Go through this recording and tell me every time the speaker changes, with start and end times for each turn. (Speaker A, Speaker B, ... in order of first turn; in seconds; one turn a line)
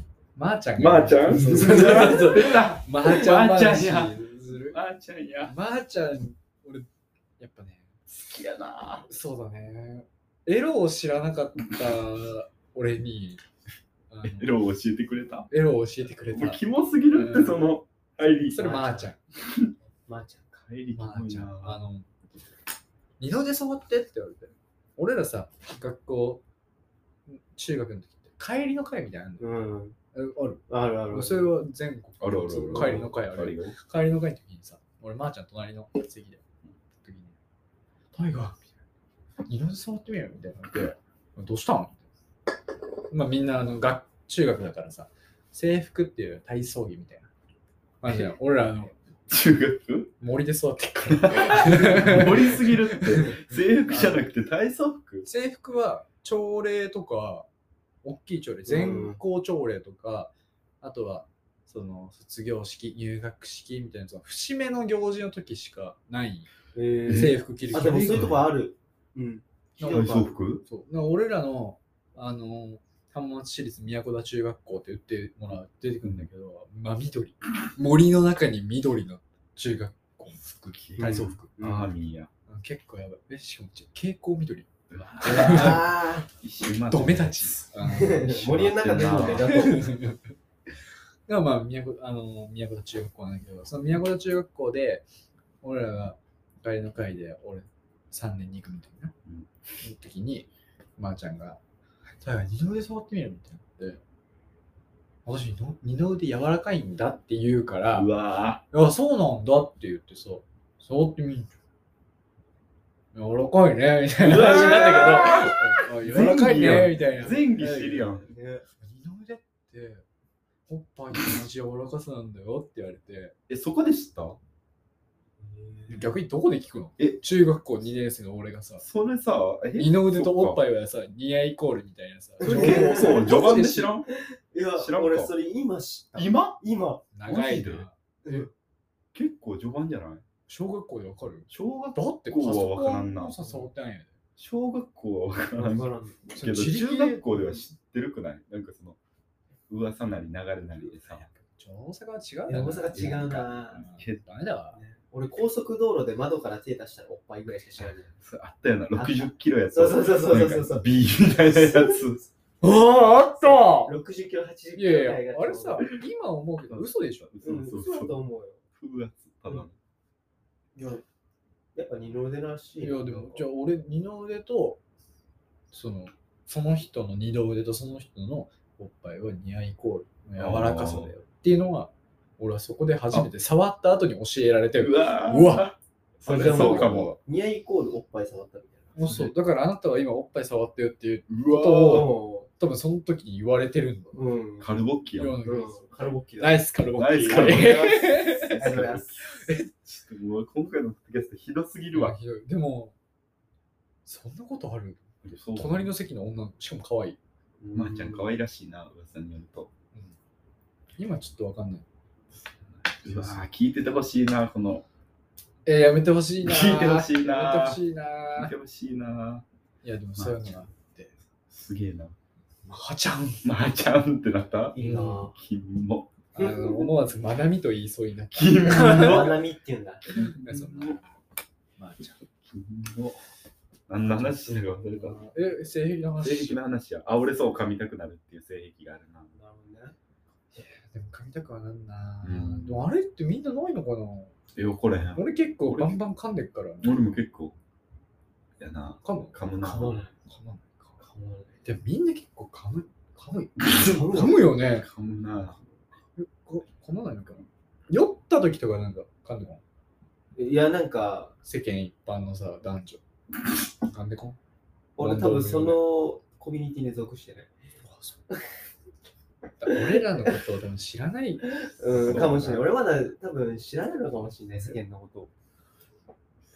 Speaker A: 0.3-4.8
Speaker B: 0.8-4.2
Speaker B: 4.7-5.5
Speaker A: 5.4-6.9
Speaker A: 7.4-7.9
Speaker B: 8.1-9.1
Speaker A: 9.1-13.4
Speaker A: 14.1-14.5
Speaker B: 14.2-15.5
Speaker A: 15.5-17.7
Speaker B: 16.3-18.7
Speaker A: 18.5-19.2
Speaker C: 18.6-19.1
Speaker B: 19.4-19.7
Speaker C: 20.1-20.6
Speaker B: 20.6-21.8
Speaker A: 20.9-22.1
Speaker A: 23.2-26.4
Speaker A: 27.3-29.5
Speaker C: 29.4-30.0
Speaker A: 30.1-36.4
Speaker C: 30.7-31.5
Speaker B: 32.2-33.8
Speaker C: 32.7-33.1
Speaker A: 37.0-37.4
Speaker A: 38.1-38.7
Speaker A: 39.5-42.0
Speaker A: 43.1-47.3
Speaker A: 48.0-49.0
Speaker B: 49.3-50.1
Speaker A: 50.2-54.3
Speaker B: 51.1-55.3
Speaker A: 55.2-57.5
Speaker A: 58.0-66.5
Speaker C: 58.7-59.2
Speaker C: 66.7-70.3
Speaker B: 67.1-68.5
Speaker A: 67.1-68.3
Speaker A: 69.8-81.5
Speaker B: 69.8-70.7
Speaker B: 76.0-76.3
Speaker B: 80.4-82.3
Speaker C: 81.0-81.9
Speaker A: 82.5-86.0
Speaker B: 84.9-89.6
Speaker C: 85.2-86.3
Speaker A: 86.9-88.5
Speaker C: 87.8-89.9
Speaker A: 89.2-90.3
Speaker A: 91.3-95.0
Speaker A: 95.6-99.1
Speaker A: 99.8-101.6
Speaker A: 102.2-104.0
Speaker A: 105.2-108.1
Speaker B: 107.9-108.6
Speaker A: 108.7-111.5
Speaker A: 113.1-118.2
Speaker B: 114.2-118.3
Speaker C: 114.4-115.1
Speaker C: 118.2-118.7
Speaker A: 118.8-120.0
Speaker A: 120.7-123.3
Speaker B: 123.5-124.4
Speaker C: 125.4-126.1
Speaker A: 125.9-128.8
Speaker B: 128.8-130.6
Speaker A: 129.8-133.9
Speaker C: 132.4-137.1
Speaker B: 132.4-134.1
Speaker B: 134.8-135.3
Speaker B: 136.2-136.6
Speaker A: 137.1-138.4
Speaker B: 137.2-137.9
Speaker C: 138.2-138.5
Speaker B: 139.1-140.2
Speaker A: 140.5-144.2
Speaker B: 141.5-143.5
Speaker B: 144.4-149.0
Speaker C: 145.5-146.3
Speaker A: 146.3-147.3
Speaker B: 149.7-151.3
Speaker A: 150.8-154.8
Speaker C: 152.5-153.9
Speaker B: 152.9-154.2
Speaker C: 154.7-158.1
Speaker B: 158.2-162.2
Speaker C: 158.9-162.3
Speaker A: 162.6-164.0
Speaker C: 163.4-165.9
Speaker A: 164.8-167.3
Speaker B: 166.7-168.2
Speaker C: 167.4-168.6
Speaker B: 168.7-169.8
Speaker C: 170.8-171.1
Speaker C: 171.8-173.5
Speaker A: 172.8-174.8
Speaker A: 175.7-185.7
Speaker B: 180.4-181.1
Speaker B: 184.8-187.2
Speaker A: 186.3-187.2
Speaker C: 186.3-189.2
Speaker A: 188.9-194.2
Speaker B: 189.1-189.3
Speaker B: 191.3-192.1
Speaker C: 191.8-192.5
Speaker C: 194.1-194.7
Speaker B: 194.6-195.4
Speaker A: 195.2-199.7
Speaker C: 195.4-196.7
Speaker B: 197.0-202.2
Speaker C: 197.3-197.7
Speaker C: 198.6-199.2
Speaker A: 201.9-202.9
Speaker A: 204.1-207.2
Speaker B: 205.2-205.9
Speaker C: 207.6-208.3
Speaker B: 207.7-209.7
Speaker A: 211.0-211.8
Speaker B: 212.8-214.8
Speaker A: 213.0-213.4
Speaker A: 215.7-218.5
Speaker B: 216.4-217.8
Speaker B: 218.3-219.4
Speaker A: 219.8-221.1
Speaker B: 220.2-220.6
Speaker B: 221.5-222.2
Speaker A: 222.7-223.4
Speaker B: 223.4-224.8
Speaker C: 224.7-225.4
Speaker A: 224.8-225.3
Speaker B: 225.3-226.1
Speaker A: 226.3-229.4
Speaker C: 226.4-226.9
Speaker B: 228.3-229.3
Speaker C: 228.7-230.0
Speaker B: 230.1-231.0
Speaker A: 230.1-231.2
Speaker A: 231.8-232.2
Speaker B: 232.4-233.2
Speaker B: 233.9-235.3
Speaker A: 234.0-236.6
Speaker B: 236.2-239.3
Speaker C: 239.3-240.0
Speaker A: 240.6-244.3
Speaker B: 242.2-242.9
Speaker B: 244.6-246.0
Speaker A: 245.2-247.2
Speaker B: 246.8-247.6
Speaker B: 248.6-250.0
Speaker A: 249.0-250.9
Speaker C: 249.6-250.1
Speaker C: 251.0-251.7
Speaker A: 251.7-254.9
Speaker C: 253.7-254.5
Speaker B: 254.8-255.6
Speaker A: 256.2-259.6
Speaker C: 260.4-261.3
Speaker A: 261.4-263.0
Speaker A: 263.9-264.4
Speaker C: 265.0-267.6
Speaker A: 265.0-265.8
Speaker A: 267.9-268.2
Speaker A: 269.6-272.6
Speaker C: 269.7-270.4
Speaker C: 271.6-275.3
Speaker B: 271.9-272.6